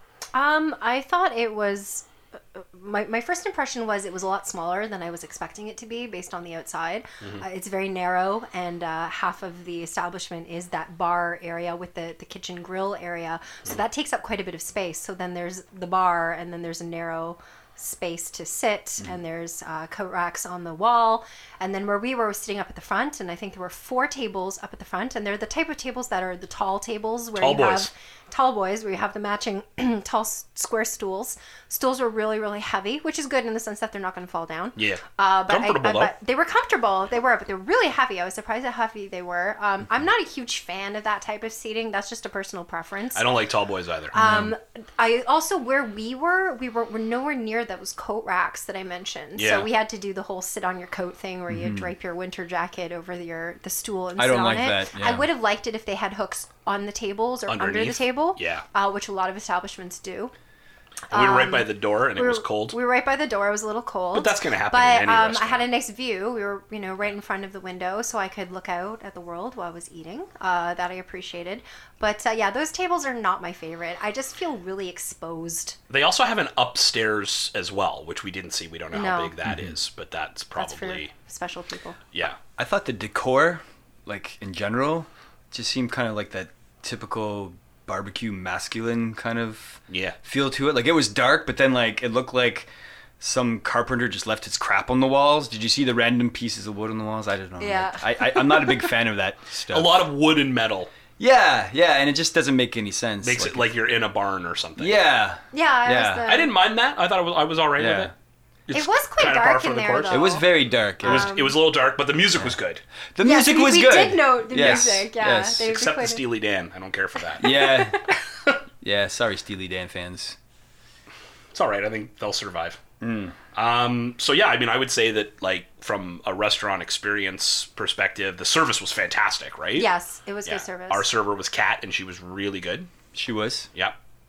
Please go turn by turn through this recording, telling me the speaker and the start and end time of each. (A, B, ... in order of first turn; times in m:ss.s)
0:00.3-0:43.3 A
0:27.4-0:27.9 B
0:34.8-0:36.1 B
0:43.2-0:44.2 B
0:44.1-0:44.5 C
0:44.1-1:00.3 A
0:49.4-0:49.7 B
0:51.5-0:51.9 C
0:54.2-0:55.3 C
0:57.5-0:58.6 B
1:01.1-1:02.8 B
1:01.1-1:15.8 A
1:04.1-1:05.6 B
1:15.9-1:21.1 B
1:18.9-1:19.4 A
1:19.5-1:19.8 C
1:20.6-1:22.0 A
1:22.1-1:22.4 B
1:22.6-1:32.7 C
1:29.9-1:30.2 B
1:33.2-1:40.1 C
1:37.6-1:38.9 A
1:39.7-1:40.9 B
1:41.2-1:43.8 C
1:43.2-1:45.1 B
1:44.8-1:46.3 C
1:45.5-1:46.5 A
1:46.3-1:48.1 B
1:47.8-1:48.1 C
1:48.7-1:50.2 B
1:48.7-1:50.5 A
1:50.1-1:51.3 C
1:51.0-1:51.6 A
1:51.0-1:52.8 B
1:53.2-1:55.7 C
1:53.2-1:56.2 A
1:54.6-1:55.0 B
1:55.6-1:57.5 B
1:57.4-1:58.0 C
1:57.4-1:58.1 A
1:58.8-2:00.4 C
2:01.5-2:02.8 B
2:03.0-2:03.4 C
2:03.5-2:09.9 B
2:09.8-2:11.1 A
2:10.4-2:12.9 B
2:13.1-2:13.7 C